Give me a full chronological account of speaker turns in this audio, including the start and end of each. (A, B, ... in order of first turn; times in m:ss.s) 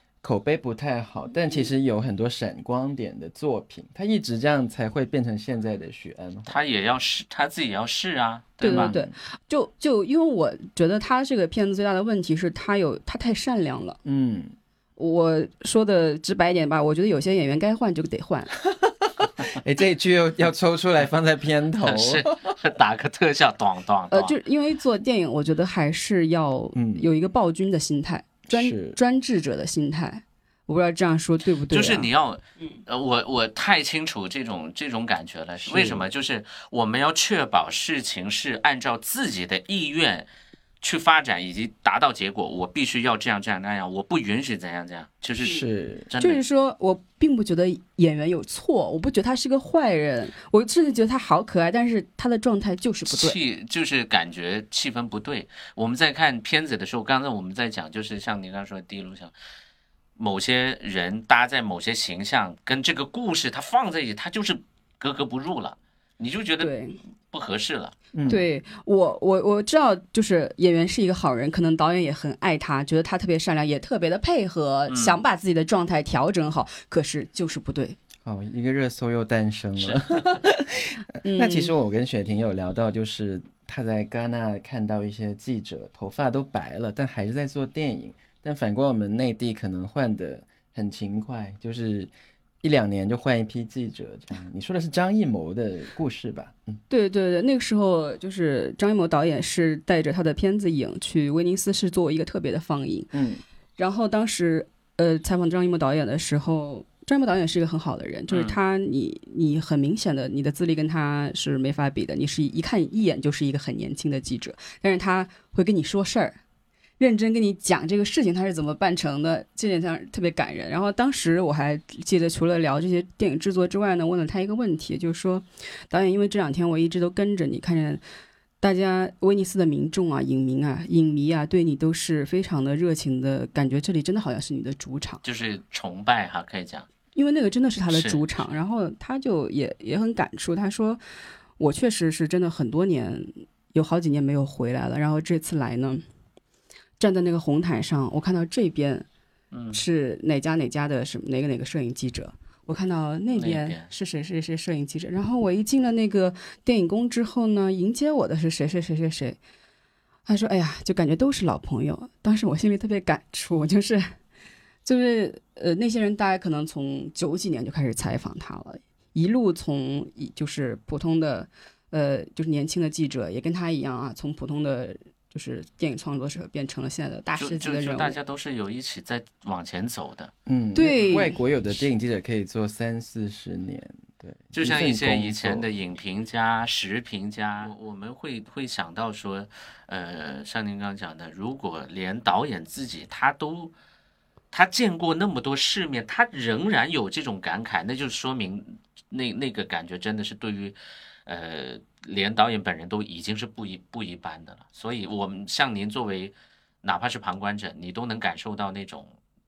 0:00.2-0:06.6 A
0:06.5-0:08.9 B
0:08.6-0:14.0 C
0:08.6-0:09.1 A
0:14.0-0:14.5 A
0:15.0-0:18.6 C
0:18.7-0:22.5 A
0:21.8-0:24.3 B
0:24.1-0:32.1 C
0:26.7-0:27.1 A
0:28.5-0:29.0 A
0:31.7-0:40.3 B
0:35.6-0:36.1 A
0:40.8-0:46.4 B
0:45.4-0:46.1 A
0:46.2-0:53.4 C
0:53.1-0:59.3 B
1:00.2-1:06.7 B
1:06.6-1:07.0 C
1:07.3-1:07.9 B
1:08.1-1:08.4 A
1:08.3-1:18.0 C
1:14.9-1:15.2 B
1:18.2-1:32.1 A
1:19.8-1:20.3 B
1:21.2-1:21.7 C
1:32.6-1:36.8 A
1:36.9-1:43.1 C
1:43.1-1:43.4 A
1:43.8-1:56.4 C
1:48.3-1:48.6 B
1:57.0-2:08.0 C
2:08.6-2:15.2 C
2:15.2-2:16.9 B
2:17.1-2:21.0 C
2:17.9-2:18.5 B
2:21.6-2:26.0 C
2:27.0-2:29.0 C
2:29.5-2:29.8 B
2:29.7-2:39.4 C
2:33.3-2:33.9 B
2:40.3-2:44.1 C
2:44.8-2:58.2 C
2:57.4-3:00.3 B
3:00.4-3:05.7 A
3:00.7-3:01.4 C
3:04.5-3:13.7 B
3:14.5-3:29.1 B